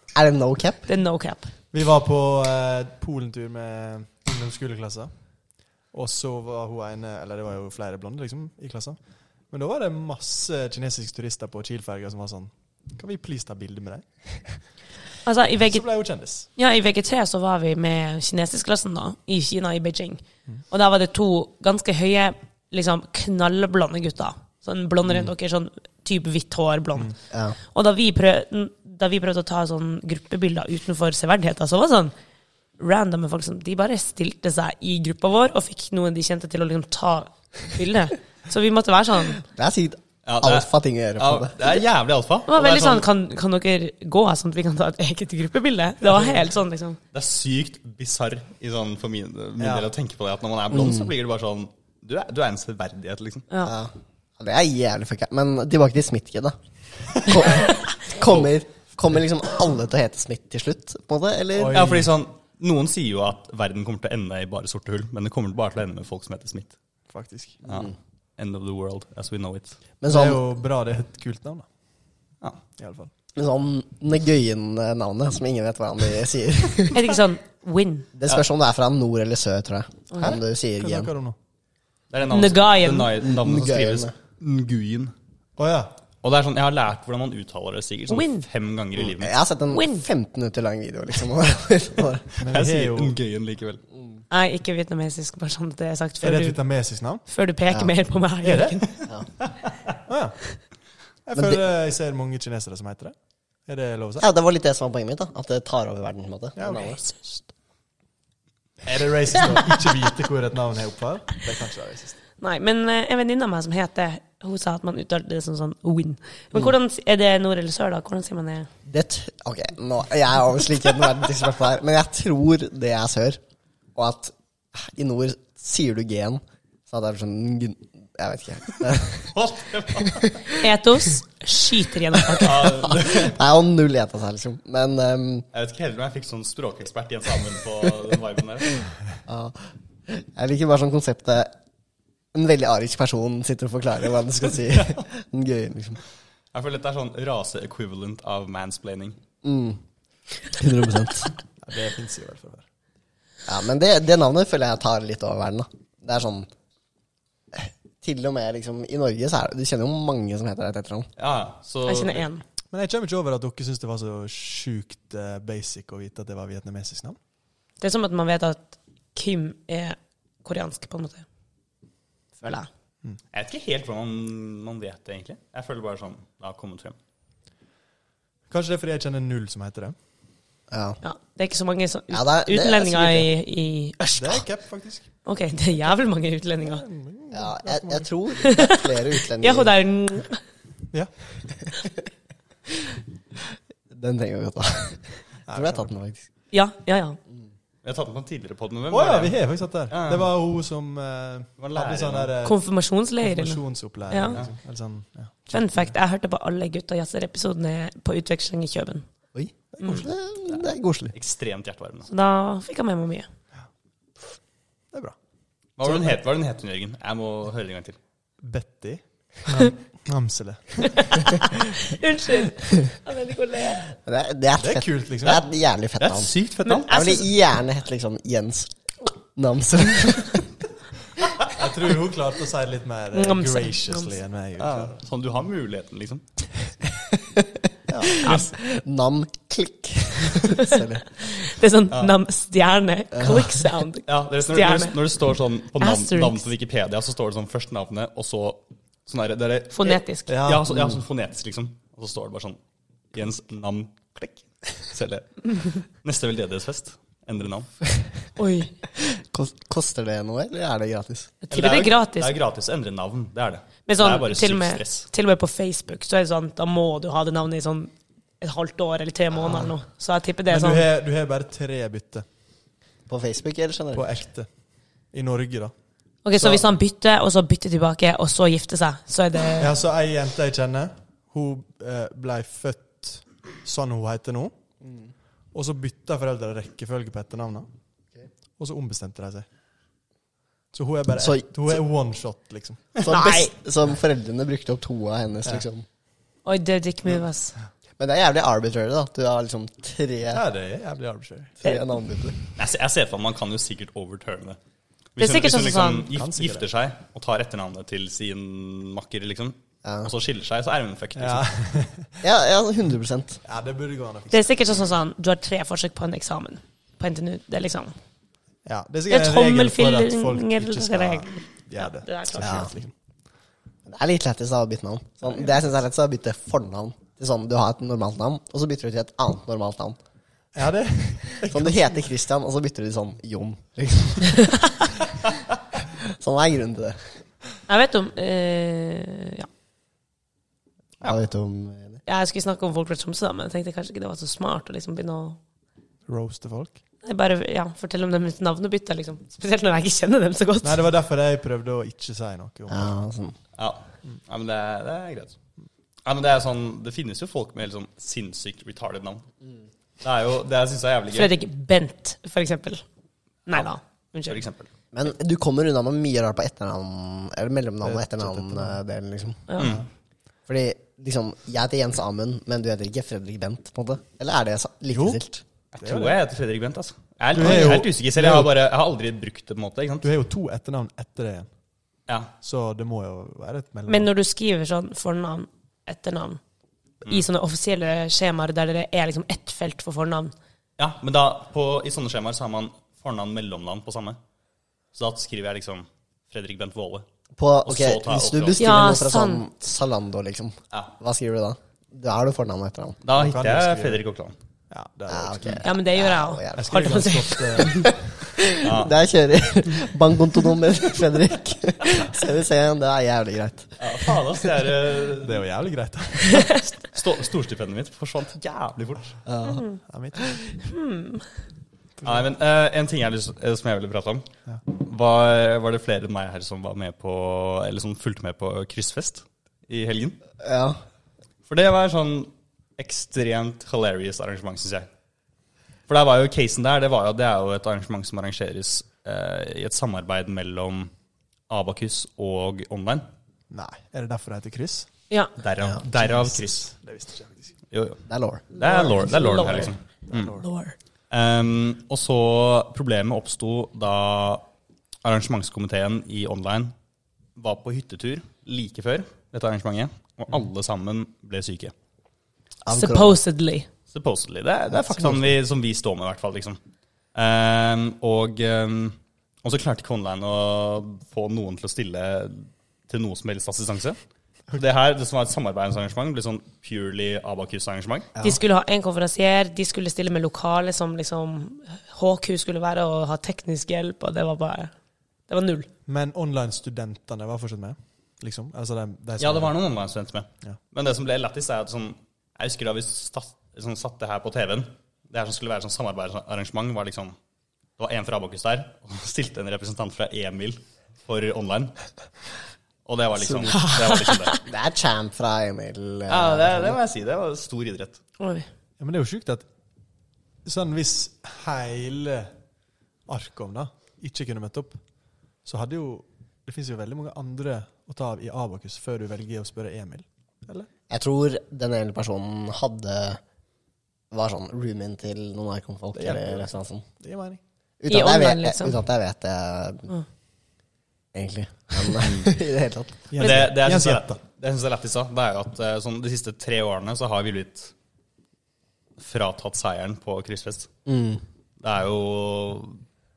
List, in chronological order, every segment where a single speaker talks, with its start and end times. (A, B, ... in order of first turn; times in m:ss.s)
0:00.2-0:00.9 A
0:00.9-0:01.5 B
0:01.7-0:05.1 C
0:05.9-0:09.0 C
0:09.5-0:14.7 C
0:15.2-0:15.9 B
0:15.7-0:16.5 C
0:16.6-0:32.1 B
0:27.3-0:27.6 A
0:32.8-0:39.4 B
0:39.5-0:41.8 A
0:40.3-0:43.1 D
0:42.5-0:47.0 B
0:46.0-0:46.4 C
0:47.1-0:53.5 D
0:49.6-0:49.9 C
0:50.7-0:51.1 A
0:53.6-0:56.5 A
0:57.2-1:01.9 A
1:01.6-1:02.1 C
1:01.7-1:06.8 D
1:07.1-1:07.6 C
1:07.6-1:09.8 D
1:10.0-1:10.4 A
1:10.1-1:11.7 C
1:12.8-1:13.1 C
1:13.4-1:17.0 A
1:16.9-1:18.1 B
1:18.2-1:21.1 A
1:20.2-1:21.4 C
1:22.1-1:25.1 D
1:22.3-1:23.1 B
1:23.2-1:24.1 A
1:25.6-1:25.9 C
1:26.2-1:29.4 D
1:28.1-1:28.4 B
1:29.0-1:32.3 A
1:29.7-1:30.1 B
1:32.4-1:33.2 C
1:32.4-1:33.8 D
1:34.3-1:36.6 B
1:36.2-1:37.2 C
1:37.3-1:38.9 B
1:38.4-1:38.8 C
1:40.1-1:40.4 C
1:41.2-1:43.2 C
1:41.4-1:41.6 A
1:43.7-1:44.3 C
1:44.2-1:47.0 A
1:46.6-1:46.9 C
1:48.8-1:52.2 C
1:52.4-1:58.7 B
1:58.9-2:03.4 A
2:04.0-2:09.4 A
2:09.3-2:10.4 D
2:09.9-2:10.4 A
2:10.6-2:12.6 B
2:12.4-2:13.4 D
2:12.4-2:15.5 A
2:15.5-2:18.9 D
2:19.3-2:21.5 A
2:22.3-2:26.0 A
2:26.5-2:29.2 D
2:29.4-2:29.8 A
2:30.4-2:31.3 A
2:31.6-2:32.6 C
2:33.5-2:36.5 A
2:37.6-2:41.1 A
2:41.2-2:42.3 D
2:41.9-2:42.4 B
2:42.7-2:47.2 C
2:47.8-2:51.2 B
2:52.4-2:52.7 B
2:53.3-2:57.0 D
2:58.5-3:00.0 C
3:00.7-3:01.0 A
3:01.0-3:04.4 B
3:02.1-3:03.3 A
3:04.2-3:05.1 C
3:05.2-3:06.8 B
3:06.6-3:08.1 C
3:07.3-3:09.7 A
3:08.4-3:08.8 B
3:09.4-3:10.4 B
3:13.9-3:16.3 A
3:15.5-3:15.9 C
3:16.5-3:17.2 B
3:17.8-3:20.3 D
3:18.9-3:22.6 C
3:21.6-3:22.3 D
3:22.4-3:24.4 B
3:23.2-3:25.9 C
3:25.5-3:29.1 B
3:29.3-3:31.1 A
3:30.5-3:32.1 D
3:32.1-3:33.3 B
3:35.8-3:38.0 D
3:35.8-3:36.1 C
3:38.4-3:41.5 C
3:41.1-3:43.9 B
3:43.9-3:46.3 A
3:44.6-3:45.4 C
3:46.0-3:47.1 D
3:46.6-3:47.3 B
3:46.9-3:48.7 A
3:49.3-3:50.5 A
3:51.5-3:55.0 C
3:53.1-3:54.1 B
3:54.6-3:56.2 D
3:57.0-4:01.3 A
3:57.9-3:58.2 C
3:58.2-3:58.5 B
4:00.6-4:05.0 B
4:03.1-4:03.6 A
4:04.1-4:12.6 D
4:05.8-4:06.5 B
4:09.7-4:10.3 B
4:10.3-4:11.0 C
4:13.1-4:17.7 D
4:18.4-4:18.7 B
4:19.0-4:21.3 A
4:21.4-4:22.4 B
4:21.5-4:25.1 D
4:23.9-4:30.9 B
4:30.5-4:32.2 C
4:33.1-4:34.1 A
4:34.0-4:34.5 C
4:35.1-4:35.7 C
4:36.2-4:39.7 B
4:36.3-4:36.6 C
4:39.6-4:44.5 C
4:44.8-4:45.1 A
4:45.5-4:47.7 C
4:48.6-4:49.5 C
4:50.7-4:52.9 C
4:51.1-4:51.8 A
4:53.0-4:55.8 A
4:53.1-4:53.5 B
4:56.4-4:57.6 B
4:58.0-5:00.4 A
5:00.3-5:01.6 C
5:01.6-5:02.4 A
5:02.6-5:04.6 D
5:05.2-5:11.5 D
5:05.2-5:06.1 B
5:06.1-5:06.6 C
5:09.8-5:10.1 A
5:11.2-5:12.2 C
5:12.2-5:13.4 A
5:13.4-5:14.5 C
5:14.3-5:17.9 B
5:18.7-5:22.9 C
5:19.1-5:22.7 B
5:22.4-5:22.7 A
5:23.9-5:30.0 A
5:30.6-5:32.0 C
5:31.4-5:34.7 A
5:35.9-5:37.1 A
5:37.7-5:39.5 B
5:41.0-5:42.0 A
5:42.1-5:45.4 B
5:46.1-5:46.8 C
5:47.0-5:50.8 B
5:50.6-5:53.0 C
5:52.7-5:53.4 A
5:53.6-5:55.4 D
5:56.1-5:59.2 D
6:00.0-6:01.3 D
6:01.1-6:02.8 B
6:03.5-6:04.4 B
6:04.3-6:04.7 D
6:04.9-6:09.5 A
6:07.8-6:08.8 C
6:09.5-6:09.8 B
6:09.6-6:09.9 D
6:10.5-6:15.4 A
6:14.9-6:15.2 C
6:15.7-6:20.1 D
6:15.8-6:16.2 C
6:17.3-6:18.6 C
6:20.0-6:21.5 C
6:22.4-6:24.1 C
6:23.9-6:26.4 B
6:27.1-6:30.3 B
6:30.8-6:34.2 D
6:34.9-6:37.1 D
6:37.4-6:43.0 A
6:37.7-6:38.7 D
6:38.6-6:39.5 B
6:43.0-6:44.4 D
6:43.2-6:44.0 C
6:44.7-6:45.7 C
6:45.1-6:46.9 A
6:45.6-6:47.7 B
6:46.6-6:48.2 C
6:47.6-6:53.7 A
6:48.6-6:48.9 D
6:53.8-6:55.4 D
6:55.2-6:56.6 C
6:56.9-6:59.2 D
6:59.3-6:59.6 A
6:59.5-6:59.8 B
6:59.8-7:00.4 C
7:00.6-7:01.3 B
7:02.0-7:02.3 C
7:02.0-7:10.2 D
7:10.4-7:10.8 A
7:11.5-7:14.9 D
7:15.9-7:20.9 D
7:21.5-7:23.1 D
7:23.5-7:24.9 C
7:25.4-7:26.7 D
7:25.7-7:27.5 C
7:27.7-7:28.0 D
7:28.1-7:28.8 A
7:28.5-7:30.4 D
7:28.6-7:29.8 B
7:30.1-7:30.4 C
7:30.4-7:30.8 B
7:31.1-7:34.4 D
7:35.0-7:36.7 D
7:37.4-7:41.7 D
7:42.6-7:43.2 A
7:42.7-7:43.7 B
7:43.9-7:46.6 D
7:44.7-7:45.2 A
7:47.2-7:54.0 D
7:54.5-7:58.1 D
7:58.2-7:58.4 A
7:58.2-8:04.7 B
8:05.3-8:05.7 B
8:05.9-8:09.5 C
8:09.2-8:17.2 D
8:17.8-8:21.8 D
8:22.9-8:24.3 D
8:23.5-8:24.4 B
8:24.5-8:26.8 A
8:26.1-8:28.0 D
8:28.2-8:28.5 B
8:28.8-8:29.5 C
8:30.4-8:32.3 C
8:33.1-8:34.8 C
8:35.4-8:40.7 C
8:40.9-8:43.2 A
8:44.1-8:46.8 A
8:46.0-8:47.4 C
8:47.8-8:49.9 A
8:47.9-8:48.8 B
8:51.1-8:53.0 A
8:52.0-8:52.3 D
8:53.1-8:54.2 C
8:53.2-8:57.7 D
8:59.0-9:00.7 D
9:00.9-9:01.2 A
9:01.6-9:02.8 D